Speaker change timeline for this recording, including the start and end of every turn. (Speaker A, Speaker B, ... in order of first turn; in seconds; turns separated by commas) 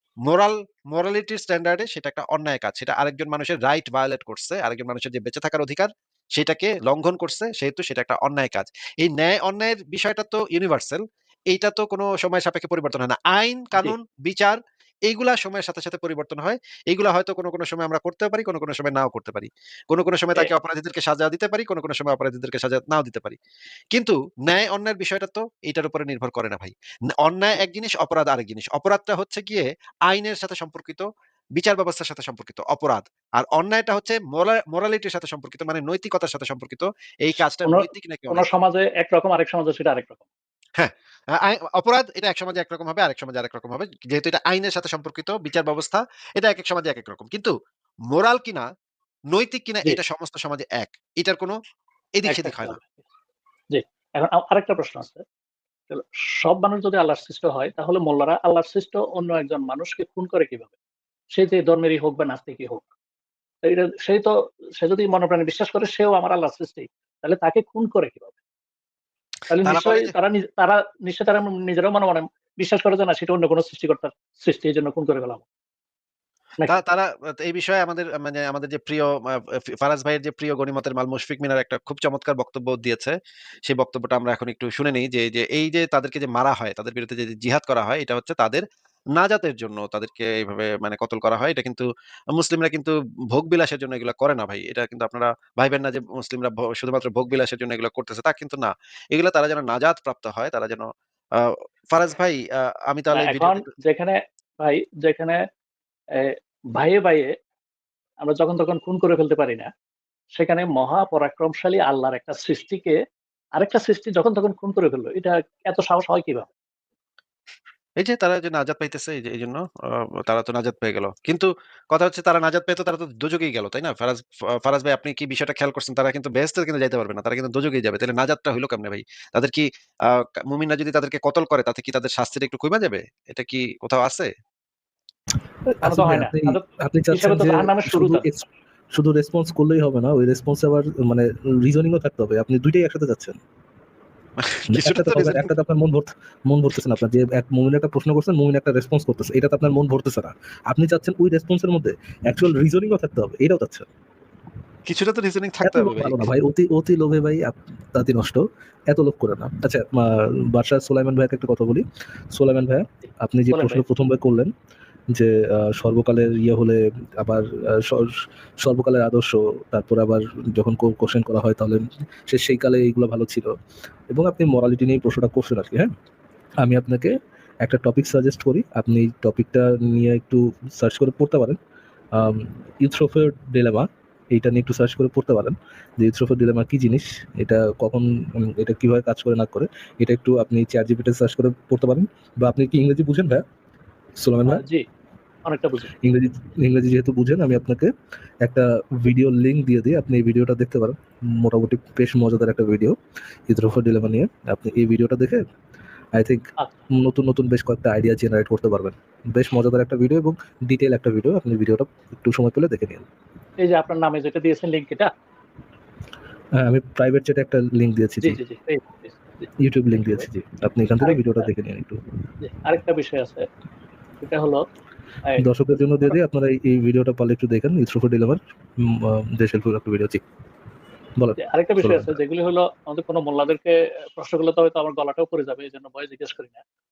Speaker A: 0.3-11.0, Speaker A: 11.5-14.6, Speaker A: 15.1-23.4, Speaker A: 23.9-31.0, Speaker A: 31.6-38.4, Speaker B: 37.6-40.2, Speaker A: 40.8-47.5, Speaker A: 48.1-48.6, Speaker A: 49.3-51.5, Speaker A: 52.2-52.8, Speaker B: 52.3-53.0, Speaker B: 53.7-55.2, Speaker B: 55.9-60.7, Speaker B: 61.4-62.8, Speaker B: 63.7-68.4, Speaker B: 69.5-75.5, Speaker A: 69.6-70.1, Speaker A: 76.7-79.1, Speaker A: 79.7-83.2, Speaker A: 83.7-88.6, Speaker A: 89.2-100.8, Speaker A: 101.9-102.4, Speaker A: 102.9-103.7, Speaker B: 103.1-105.4, Speaker B: 106.2-107.3, Speaker B: 108.2-109.7, Speaker B: 110.3-113.0, Speaker B: 113.6-116.5, Speaker A: 118.0-119.6, Speaker A: 120.2-129.6, Speaker A: 130.5-134.3, Speaker C: 135.7-143.4, Speaker B: 135.8-136.6, Speaker B: 137.1-138.2, Speaker A: 144.4-145.5, Speaker C: 144.7-153.8, Speaker A: 154.8-156.3, Speaker C: 155.6-164.5, Speaker B: 163.5-163.8, Speaker C: 165.1-173.5, Speaker C: 174.1-175.9, Speaker C: 176.6-181.6, Speaker C: 182.1-193.4, Speaker C: 194.2-194.6, Speaker B: 194.5-194.8, Speaker B: 195.5-195.9, Speaker C: 196.0-197.9, Speaker C: 198.4-202.9, Speaker C: 203.5-205.4, Speaker C: 206.1-213.1, Speaker B: 213.6-215.1, Speaker C: 216.6-218.4, Speaker B: 218.2-220.3, Speaker C: 219.6-222.0, Speaker B: 221.0-221.5, Speaker B: 222.4-223.5, Speaker B: 224.2-224.6, Speaker C: 225.4-230.2, Speaker C: 231.2-232.2, Speaker B: 231.4-236.6